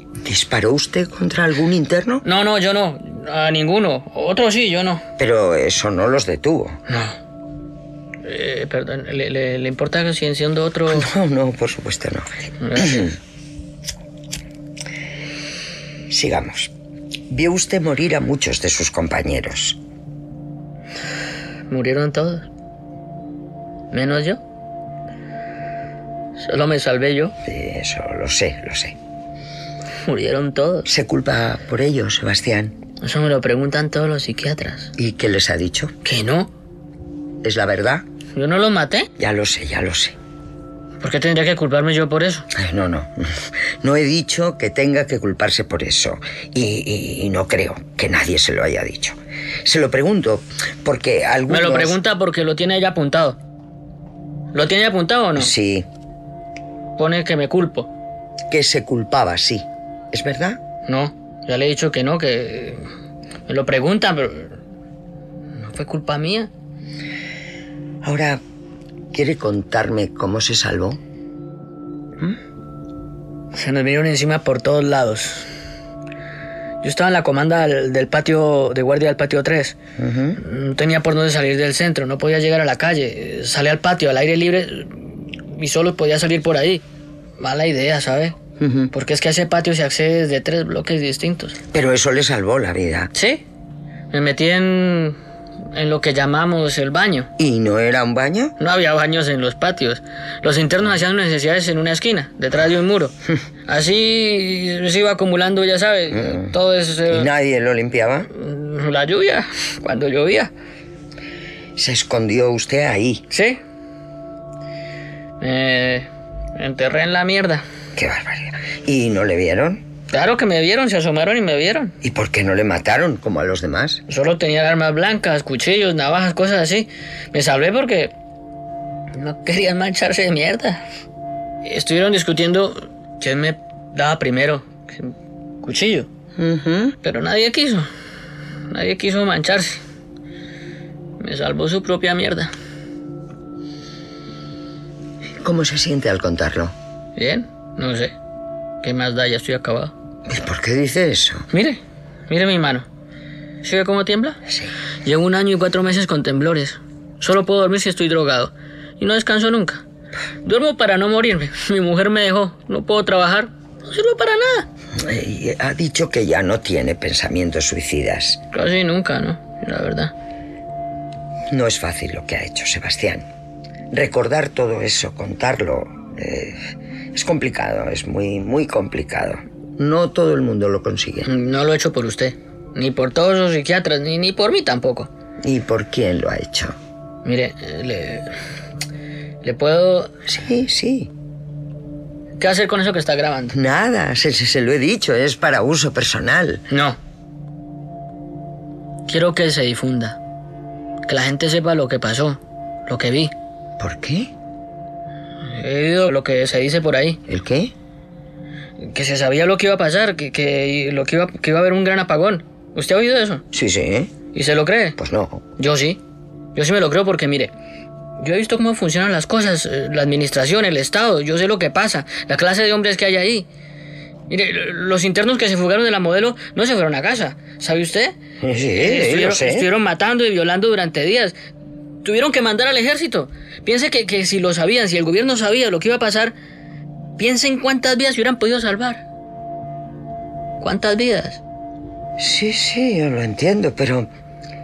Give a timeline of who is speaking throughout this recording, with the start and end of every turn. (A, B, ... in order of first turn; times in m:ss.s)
0:00.2-0:02.2 A
0:02.2-0:05.0 B
0:05.2-0:06.8 A
0:06.9-0:07.2 B
0:08.2-0:11.1 B
0:10.9-0:13.1 A
0:12.6-0:13.2 B
0:16.1-0:16.7 A
0:17.3-0:19.8 A
0:21.7-0:22.5 B
0:23.9-0:24.4 B
0:26.4-0:27.3 B
0:27.5-0:29.0 A
0:30.0-0:30.9 B
0:30.8-0:32.8 A
0:33.0-0:34.9 B
0:35.0-0:35.9 A
0:36.0-0:36.5 B
0:37.4-0:38.0 A
0:38.3-0:39.1 B
0:39.2-0:40.2 A
0:41.0-0:42.5 B
0:42.6-0:52.0 A
0:51.5-0:53.4 B
0:54.5-0:55.5 B
0:55.4-0:55.9 A
0:57.0-0:57.9 B
0:58.5-1:00.6 A
1:00.9-1:02.8 B
1:03.5-1:04.6 B
1:05.6-1:06.5 B
1:08.0-1:08.4 A
1:09.1-1:11.0 A
1:13.6-1:15.5 B
1:16.8-1:19.8 B
1:20.0-1:20.4 A
1:20.4-1:26.8 B
1:27.4-1:28.4 B
1:28.6-1:28.9 A
1:28.9-1:31.6 B
1:31.7-1:33.1 A
1:33.2-1:33.4 B
1:34.1-1:35.2 B
1:35.7-1:37.3 B
1:37.4-1:38.6 A
1:38.6-1:43.1 B
1:43.7-1:47.3 B
1:46.1-1:46.6 A
1:47.1-1:48.3 A
1:48.3-1:50.5 B
1:51.8-1:53.2 A
1:53.3-1:53.6 B
1:55.4-1:57.6 B
1:58.0-1:59.8 A
2:00.1-2:02.0 B
2:02.0-2:04.0 A
2:04.1-2:08.1 B
2:09.1-2:10.8 B
2:11.6-2:15.1 B
2:15.6-2:16.1 B
2:16.4-2:17.0 A
2:17.0-2:17.9 B
2:18.7-2:19.8 B
2:21.2-2:22.5 B
2:25.4-2:26.7 A
2:27.2-2:28.1 B
2:28.8-2:29.9 B
2:30.3-2:31.5 A
2:31.5-2:32.9 B
2:33.6-2:34.4 B
2:35.0-2:39.8 B
2:40.4-2:44.7 B
2:45.0-2:48.4 A
2:48.5-2:50.1 B
2:51.5-2:53.2 A
2:53.9-3:01.3 A
3:01.2-3:05.1 B
3:05.4-3:06.8 A
3:07.2-3:08.3 B
3:09.4-3:10.1 B
3:10.3-3:11.1 A
3:12.4-3:13.6 B
3:13.5-3:16.6 A
3:16.7-3:17.0 B
3:19.1-3:20.2 B
3:21.1-3:23.3 B
3:23.8-3:24.3 A
3:25.5-3:27.2 B
3:27.3-3:27.7 A
3:28.8-3:33.4 B
3:33.5-3:34.1 A
3:34.3-3:35.0 B
3:35.0-3:35.4 A
3:35.6-3:36.0 B
3:36.6-3:37.5 B
3:38.2-3:43.5 B
3:44.3-3:48.2 B
3:48.4-3:49.7 A
3:48.8-3:51.4 B
3:52.0-3:56.4 B
3:57.2-3:59.0 B
4:00.6-4:01.4 B
4:02.2-4:04.1 A